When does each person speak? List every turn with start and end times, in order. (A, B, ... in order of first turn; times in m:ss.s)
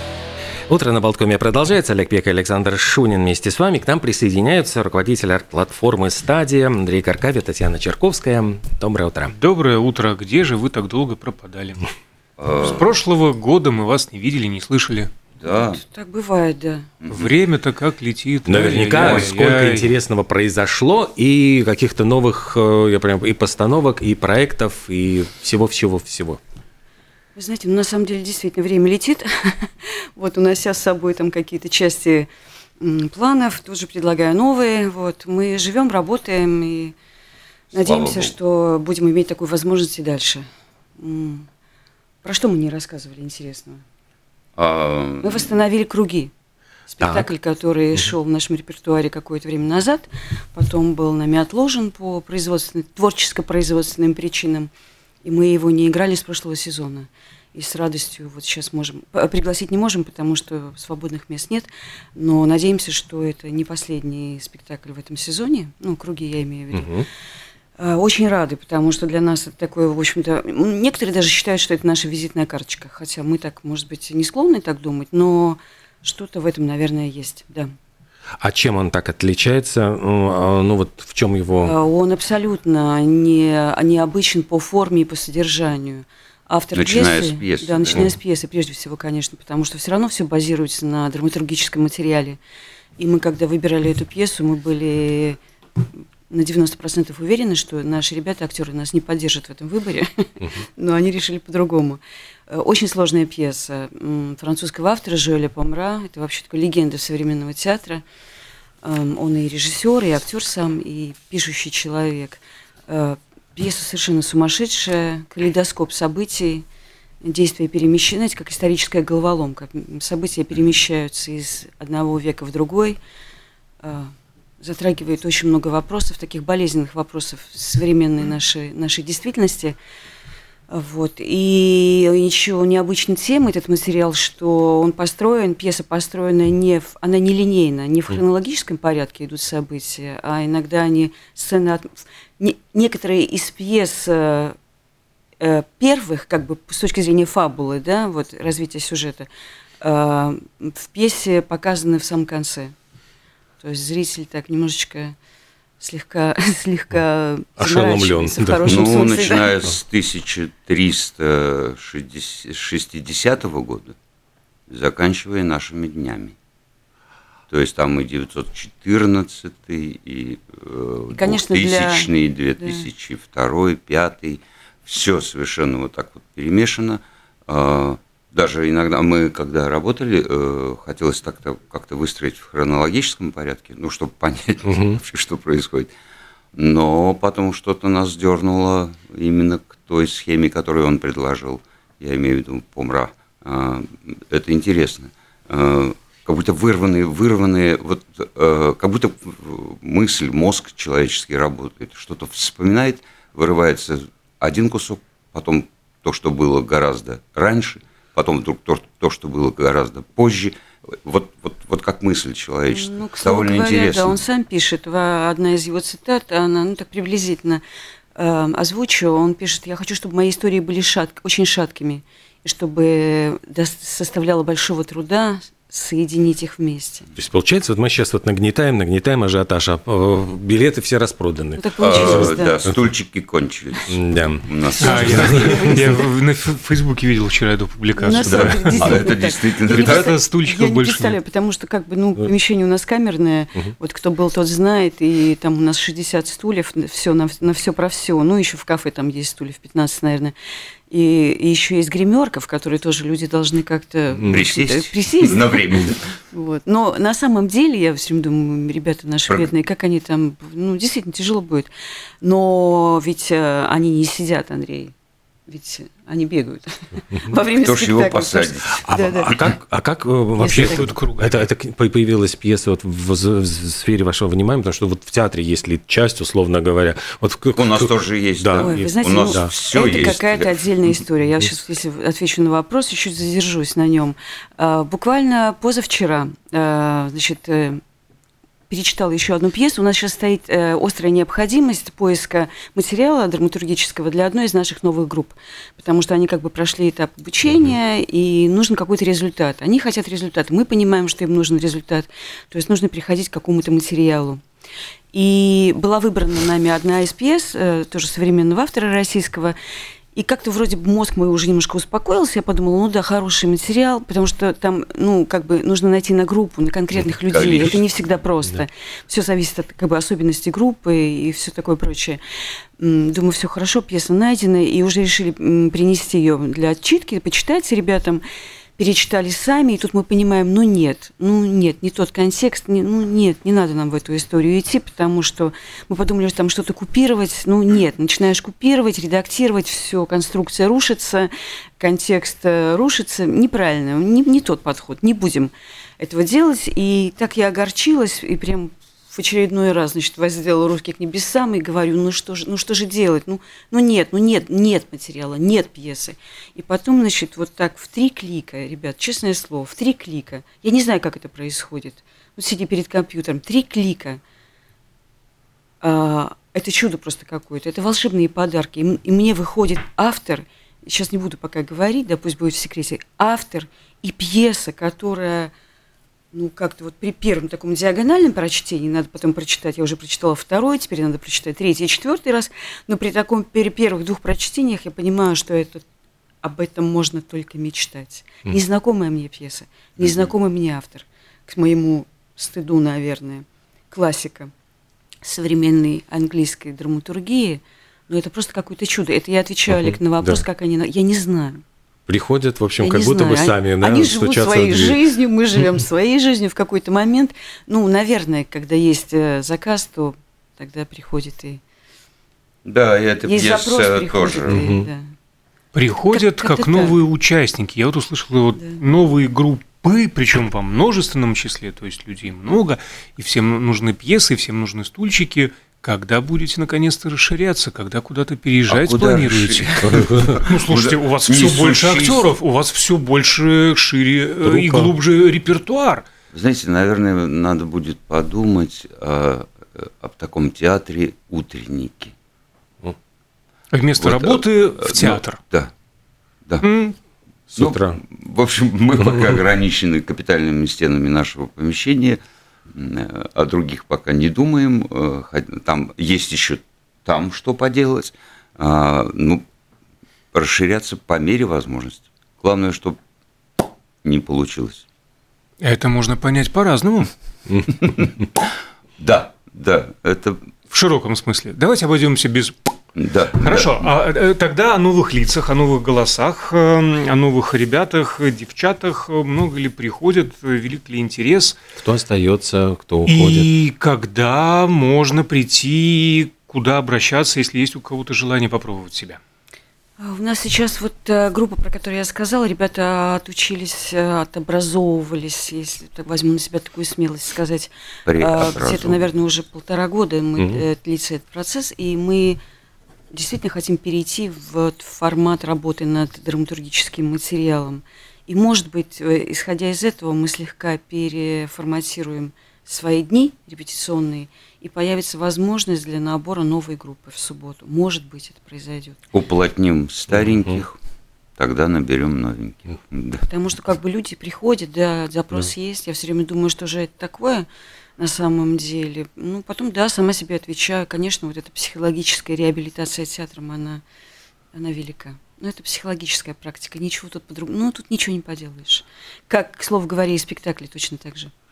0:00.7-0:09.4 A
0:09.3-0:11.9 B
0:12.4-0:12.9 C
0:12.6-0:15.1 B
0:15.4-0:15.8 C
0:15.5-0:16.9 D
0:17.0-0:17.3 C
0:17.1-0:19.9 B
0:18.4-0:26.4 A
0:18.9-0:19.3 C
0:27.4-0:32.3 D
0:32.8-0:37.0 D
0:37.7-0:40.4 D
0:37.8-0:38.4 C
0:41.0-0:41.5 D
0:42.2-0:43.8 D
0:44.6-0:45.6 C
0:45.2-0:46.3 D
0:46.9-0:54.7 D
0:47.0-0:47.3 A
0:55.2-1:07.0 D
1:06.7-1:07.1 A
1:07.8-1:17.7 D
1:18.4-1:21.8 A
1:21.6-1:32.4 D
1:26.7-1:28.1 C
1:33.0-1:35.4 D
1:36.3-1:48.0 D
1:48.8-1:56.6 D
1:57.2-2:03.0 D
2:03.8-2:09.8 D
2:10.7-2:24.6 D
2:25.4-2:29.3 D
2:29.8-2:32.7 D
2:33.6-2:35.2 D
2:35.8-2:39.6 D
2:37.6-2:38.8 A
2:38.7-2:44.0 C
2:44.7-2:46.4 C
2:47.5-3:05.9 C
2:51.1-2:52.9 D
3:04.7-3:05.0 A
3:06.6-3:34.2 C
3:32.7-3:37.6 D
3:38.2-3:47.1 D
3:47.2-3:52.3 A
3:51.6-3:52.6 D
3:51.8-3:55.6 C
3:53.9-3:54.4 A
3:54.8-3:58.9 B
3:54.8-3:56.0 D
3:58.0-4:10.3 D
3:58.2-4:00.1 C
3:59.7-4:01.2 B
4:10.9-4:15.6 D
4:14.2-4:16.1 C
4:16.3-4:21.7 D
4:22.2-4:24.9 D
4:25.5-4:29.4 D
4:27.6-4:28.8 C
4:28.8-4:39.5 A
4:30.4-4:31.5 B
4:30.4-4:30.9 D
4:37.6-4:40.7 C
4:38.6-4:47.8 D
4:48.7-5:04.4 D
5:05.1-5:09.6 D
5:10.2-5:22.2 D
5:17.0-5:17.8 C
5:22.8-5:28.2 D
5:28.8-6:04.2 D
6:05.8-6:15.5 D
6:16.3-6:25.8 D
6:26.4-6:34.5 D
6:30.0-6:30.3 C
6:35.2-6:41.6 D
6:39.7-6:40.4 A
6:42.1-6:45.0 A
6:42.8-6:51.6 D
6:52.6-6:54.7 C
6:53.2-6:55.1 D
6:54.6-6:54.8 A
6:55.7-7:16.0 B
6:56.1-6:57.0 D
7:08.7-7:12.3 C
7:09.8-7:10.4 A
7:14.4-7:14.9 A
7:16.3-7:22.1 C
7:23.7-7:25.4 B
7:24.0-7:25.7 C
7:26.6-7:27.0 B
7:27.5-7:28.0 A
7:27.6-7:32.2 C
7:32.7-7:39.4 C
7:40.3-7:43.0 C
7:44.0-7:44.8 C
7:45.6-7:47.1 B
7:47.8-7:50.4 C
7:50.7-7:52.7 B
7:53.0-7:53.9 C
7:53.4-8:01.6 B
8:01.8-8:03.5 A
8:03.1-8:09.2 B
8:10.0-8:22.4 D
8:18.1-8:19.1 C
8:20.4-8:20.6 A
8:23.1-8:39.0 D
8:39.1-8:40.8 C
8:41.4-8:43.2 C
8:43.3-8:53.8 D
8:54.5-9:01.3 D